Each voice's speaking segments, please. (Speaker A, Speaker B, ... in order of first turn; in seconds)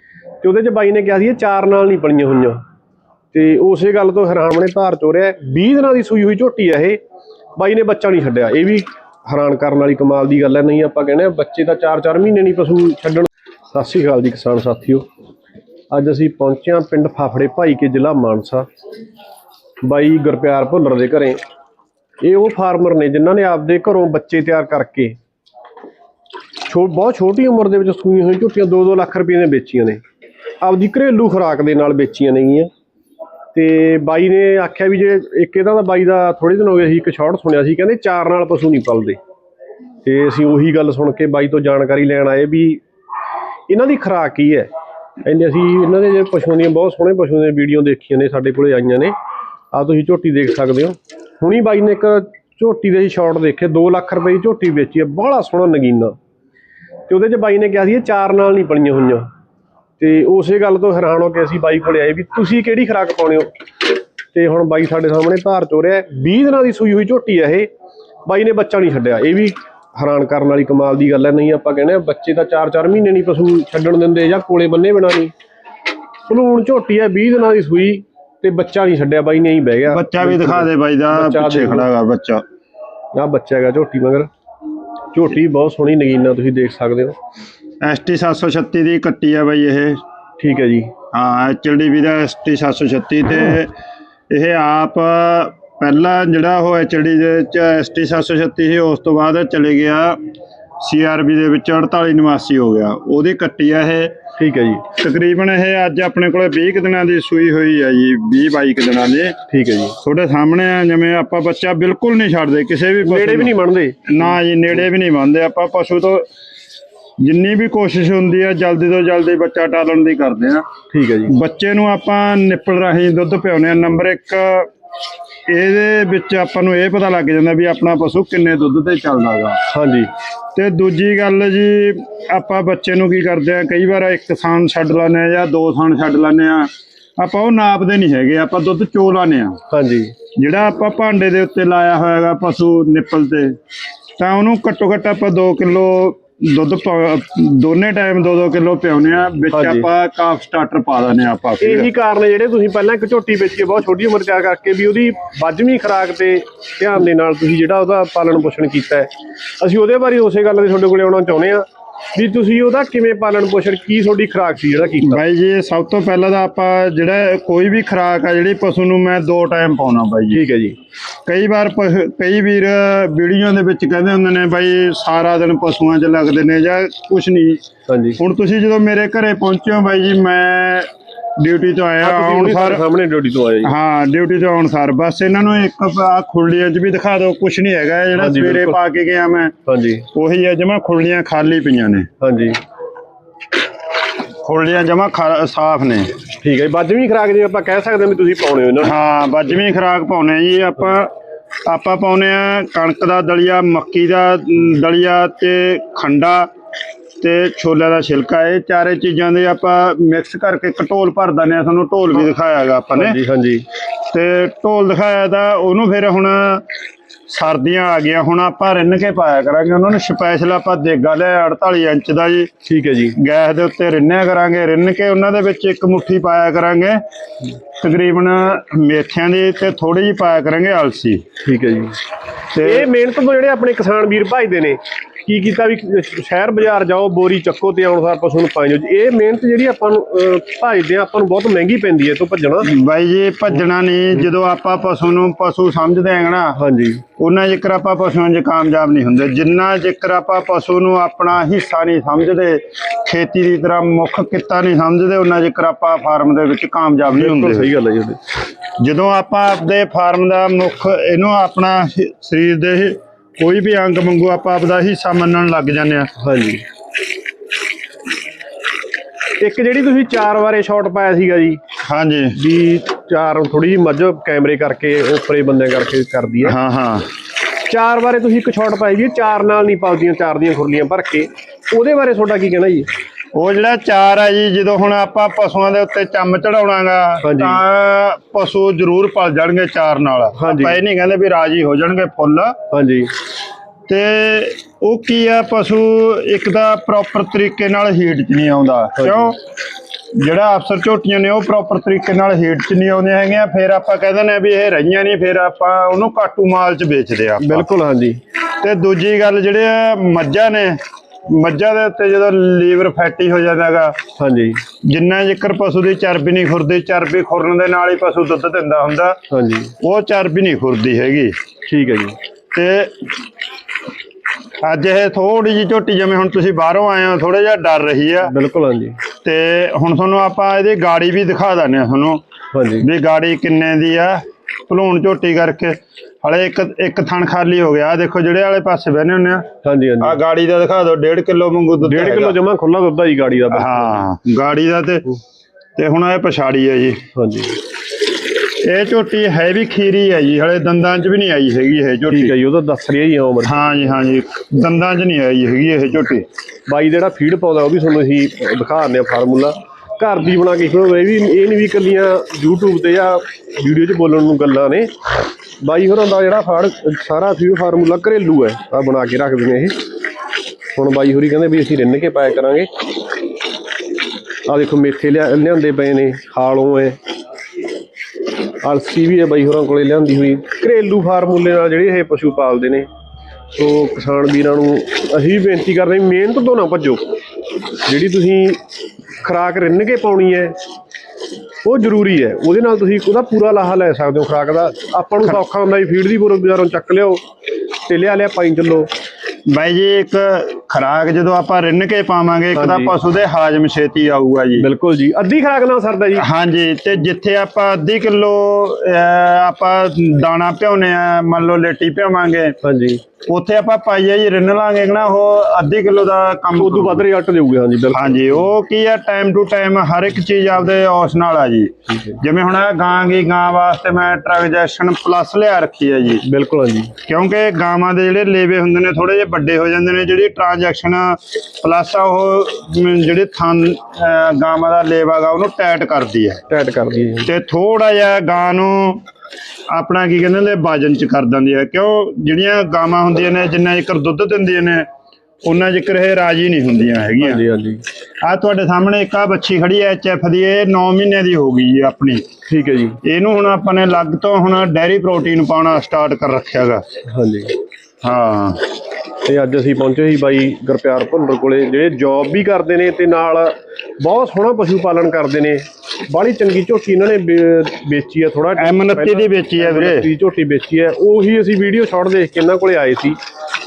Speaker A: 0.4-2.6, 3.3-7.0, 7.6-15.1, 15.9-18.7, 19.8-21.4, 22.2-25.2, 26.6-30.0, 30.6-32.7, 33.5-39.2, 40.0-42.8, 43.7-44.7, 45.2-49.1, 49.7-56.1, 57.1-59.3, 60.0-63.5, 64.3-67.7, 68.2-75.3, 76.3-81.9, 83.1-84.3, 85.1-87.2, 90.4-90.9, 104.4-104.8, 109.5-110.0, 113.0-114.0, 120.9-121.3, 129.7-130.1, 139.7-140.1, 149.5-149.9, 151.6-165.2, 170.3-170.8, 177.9-178.2, 182.0-183.7, 188.2-188.8, 189.7-190.1, 192.2-192.6, 196.4-198.9, 212.9-213.7, 222.6-223.2, 231.4-232.0, 232.6-242.7, 246.6-247.0, 257.1-258.2, 266.2-266.6, 269.4-271.6, 272.3-276.5, 277.6-282.9, 287.2-287.6, 290.4-290.8, 292.7-293.1, 299.0-299.3, 307.4-308.2, 314.1-314.6, 319.3-319.7, 321.7-322.2, 328.2-329.0, 332.5-332.9, 339.6-340.2, 341.8-344.0, 347.1-347.6, 352.1-353.9, 356.7-364.9, 365.6-369.7, 370.7-372.7, 374.5-377.0, 378.5-382.9, 383.5-387.2, 387.8-388.6, 389.2-390.6, 391.6-397.2, 397.8-398.9, 402.5-402.9, 404.6-406.2, 412.6-413.0, 416.6-418.4, 421.9-422.2, 426.2-426.9, 436.5-437.3, 447.2-447.8, 452.5-453.0, 457.1-457.5, 459.2-473.2
Speaker B: 79.9-82.4, 87.8-90.0, 91.1-93.7, 94.3-100.2, 100.8-104.1, 104.9-109.3, 110.0-116.3, 117.2-120.6, 121.3-124.7, 125.5-129.6, 130.5-139.6, 140.3-143.6, 144.2-151.9, 165.0-170.4, 171.2-177.6, 178.2-182.8, 183.6-189.5, 190.1-192.1, 194.3-196.2, 198.8-201.1, 201.7-206.5, 207.2-213.2, 214.1-216.7, 217.3-222.5, 223.2-227.0, 227.8-231.2, 232.5-232.9, 242.6-246.6, 247.2-257.7, 258.8-266.1, 271.8-272.4, 276.4-277.1, 283.3-292.6, 293.9-299.4, 300.1-307.6, 308.6-314.0, 314.8-319.2, 319.8-321.4, 322.5-323.1, 324.6-328.3, 329.2-332.2, 332.8-339.5, 340.0-342.4, 343.5-345.1, 345.8-347.0, 348.6-352.3, 353.4-356.2, 399.5-404.6, 406.1-412.6, 413.3-417.0, 417.9-426.2, 427.1-436.4, 437.2-439.0, 439.7-444.9, 445.4-447.4, 448.2-452.2, 453.0-456.8, 458.0-458.6, 468.6-470.1